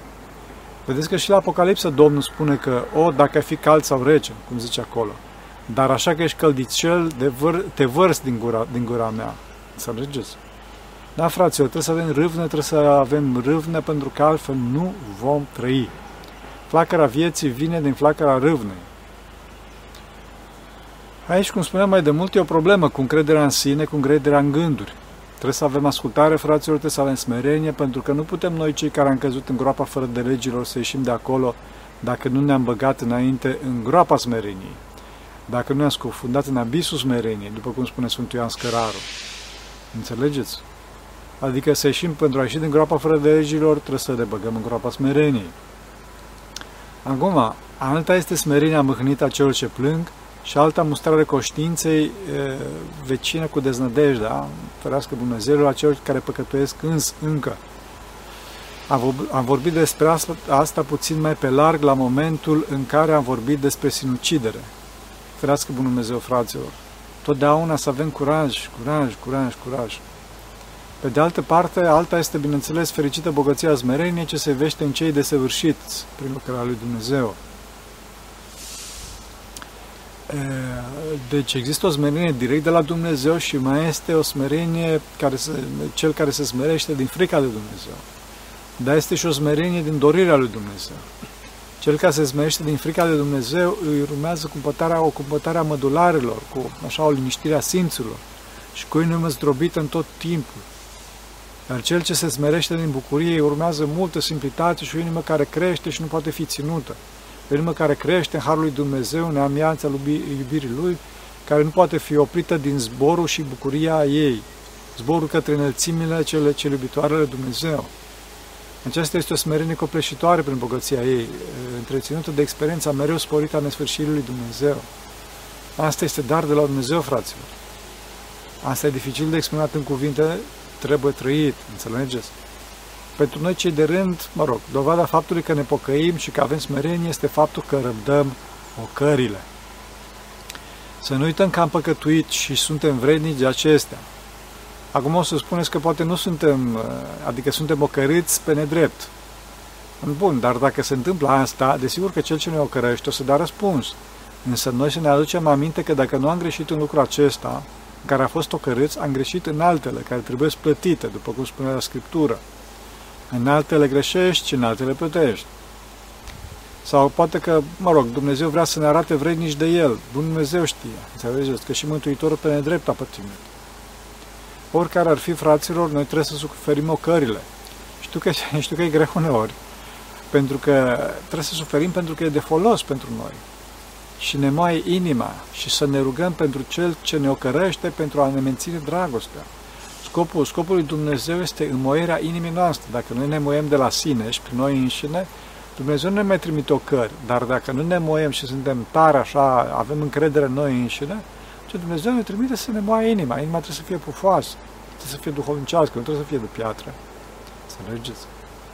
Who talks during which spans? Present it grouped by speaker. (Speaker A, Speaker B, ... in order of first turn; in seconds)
Speaker A: 0.8-10.4, 11.2-15.9, 16.7-18.9, 21.3-34.8, 35.5-39.1, 39.9-40.6, 41.4-45.5, 47.0-57.6, 58.9-64.7, 65.4-70.0, 71.0-77.4, 80.3-88.0, 88.8-91.0, 91.8-98.2, 98.7-100.7, 101.7-117.9, 118.8-124.9, 125.8-127.5, 128.6-132.3, 133.2-139.5, 141.0-144.1, 144.9-149.1, 150.0-162.4, 163.3-165.5, 166.8-173.4, 174.7-177.5, 178.0-179.6, 180.3-183.4, 184.2-189.5, 190.0-207.0, 207.7-208.3